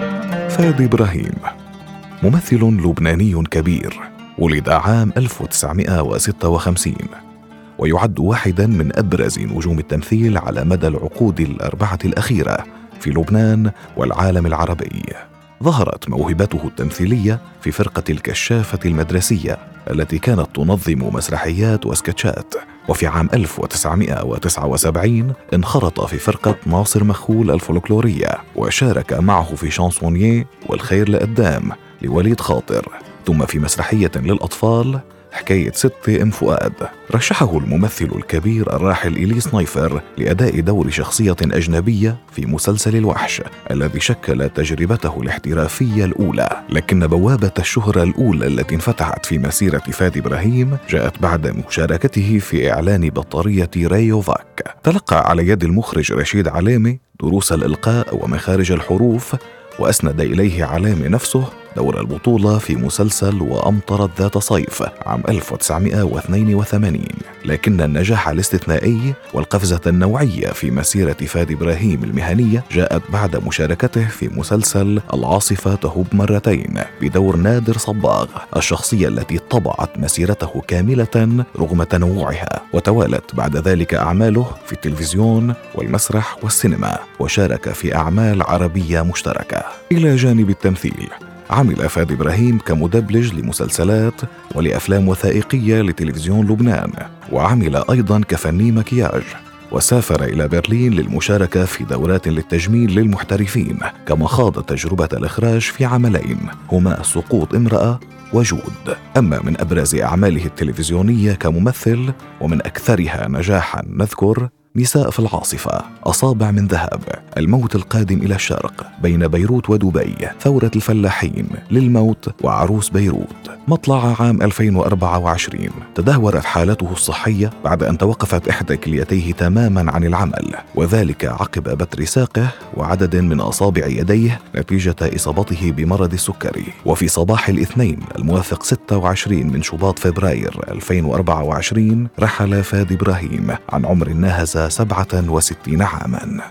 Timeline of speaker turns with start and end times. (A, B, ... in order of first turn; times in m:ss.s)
0:00.5-0:01.5 A
0:02.2-0:07.1 A
0:07.8-2:26.4 A